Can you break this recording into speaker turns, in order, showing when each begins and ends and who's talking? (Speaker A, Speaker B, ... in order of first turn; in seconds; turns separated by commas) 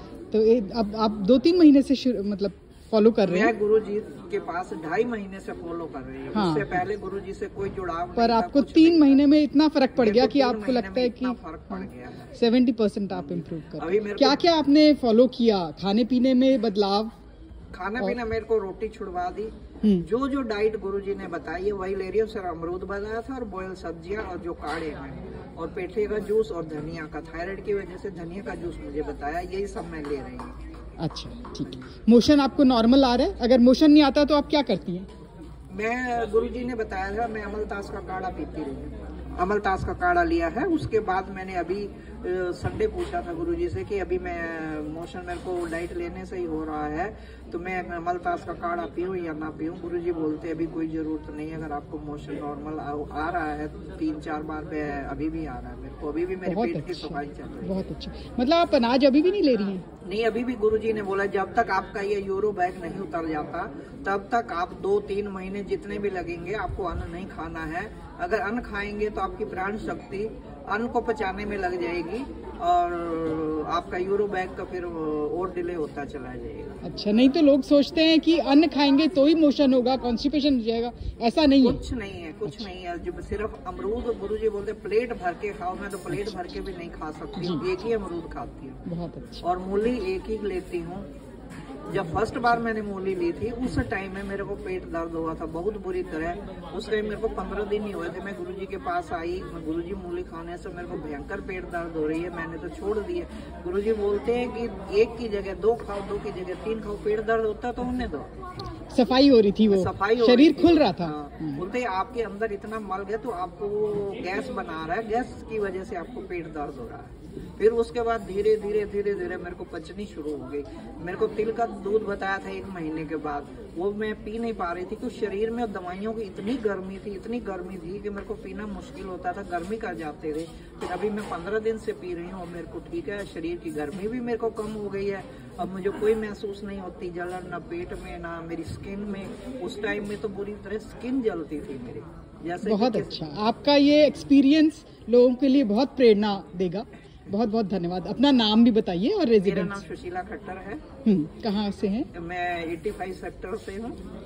Speaker A: 0.3-3.5, Speaker B: 3.3-9.2, Speaker A: 6.3-6.8, Speaker A: 8.2-11.4, Speaker B: 9.9-12.4, Speaker A: 12.3-17.1, Speaker B: 13.1-14.4, Speaker B: 17.7-30.6, Speaker A: 31.0-35.1, Speaker B: 35.7-57.8, Speaker A: 56.5-59.8, Speaker B: 60.0-76.8, Speaker A: 76.8-81.8, Speaker B: 81.6-88.8, Speaker A: 86.1-86.4, Speaker A: 87.4-87.7, Speaker A: 88.9-89.4, Speaker B: 89.4-91.1, Speaker B: 91.9-108.3, Speaker A: 108.9-111.7, Speaker B: 109.7-143.2, Speaker A: 142.6-149.8, Speaker B: 149.4-150.8, Speaker A: 151.0-152.1, Speaker B: 152.1-154.0